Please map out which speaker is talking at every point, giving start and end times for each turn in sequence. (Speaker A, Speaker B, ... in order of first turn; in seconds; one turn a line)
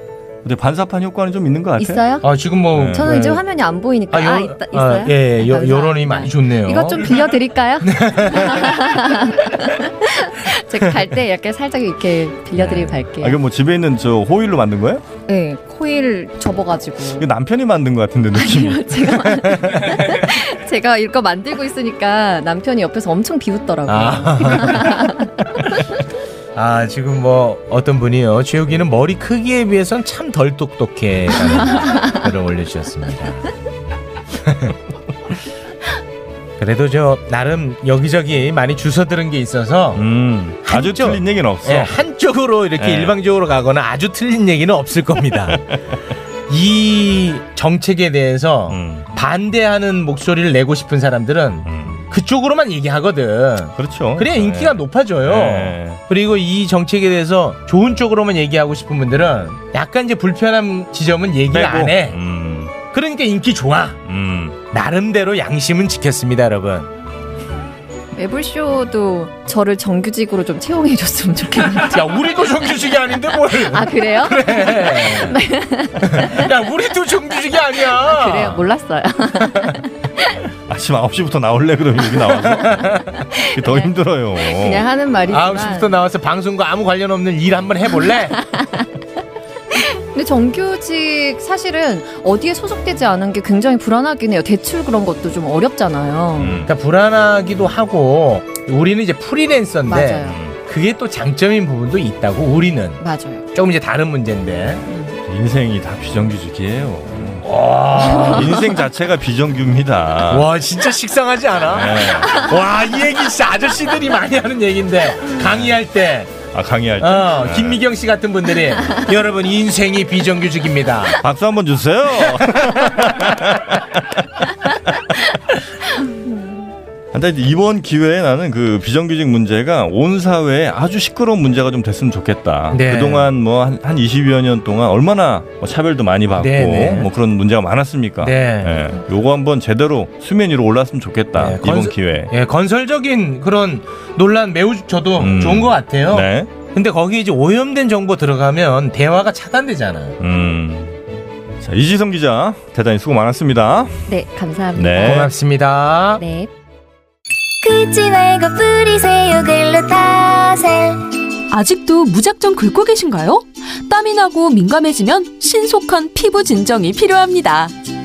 Speaker A: 0.4-2.1
Speaker B: 1.8-13.4
Speaker C: 2.2-3.4
Speaker A: 2.7-3.1
Speaker C: 4.1-7.2
Speaker C: 7.8-9.0
Speaker A: 12.6-15.1
Speaker B: 15.3-17.3
Speaker A: 17.2-19.2
Speaker B: 18.3-25.3
Speaker C: 23.9-25.1
Speaker C: 26.6-33.5
Speaker C: 34.4-34.7
Speaker C: 36.6-40.0
Speaker A: 40.0-41.9
Speaker C: 40.6-45.6
Speaker A: 42.8-43.1
Speaker A: 45.5-45.8
Speaker C: 46.5-62.2
Speaker A: 48.7-49.1
Speaker A: 51.6-52.1
Speaker A: 53.8-56.0
Speaker A: 61.5-62.8
Speaker C: 62.8-64.0
Speaker A: 64.1-64.6
Speaker C: 64.7-66.9
Speaker B: 68.2-72.0
Speaker C: 71.7-75.4
Speaker B: 73.5-76.4
Speaker C: 76.0-78.6
Speaker B: 78.0-80.4
Speaker A: 80.7-84.9
Speaker B: 83.1-85.9
Speaker C: 85.3-88.5
Speaker B: 88.4-88.8
Speaker B: 89.7-96.6
Speaker A: 96.4-96.7
Speaker C: 96.6-103.0
Speaker B: 99.9-100.4
Speaker A: 100.2-100.5
Speaker B: 103.0-103.5
Speaker C: 103.5-104.8
Speaker B: 104.9-105.1
Speaker A: 105.3-107.5
Speaker C: 107.2-108.7
Speaker B: 108.0-108.4
Speaker A: 108.1-110.5
Speaker C: 110.3-116.4
Speaker A: 111.7-112.4
Speaker A: 116.5-117.8
Speaker C: 117.0-121.2
Speaker A: 121.2-124.0
Speaker A: 124.6-125.0
Speaker B: 126.3-126.5
Speaker A: 127.1-142.3
Speaker C: 132.7-133.3
Speaker C: 136.4-137.1
Speaker C: 138.2-138.8
Speaker C: 141.4-150.2
Speaker A: 145.2-146.5
Speaker A: 150.2-150.9
Speaker A: 151.6-154.0
Speaker B: 154.1-155.3
Speaker A: 154.8-155.3
Speaker C: 155.0-156.2
Speaker B: 156.2-156.5
Speaker D: 157.6-161.0
Speaker E: 161.5-167.7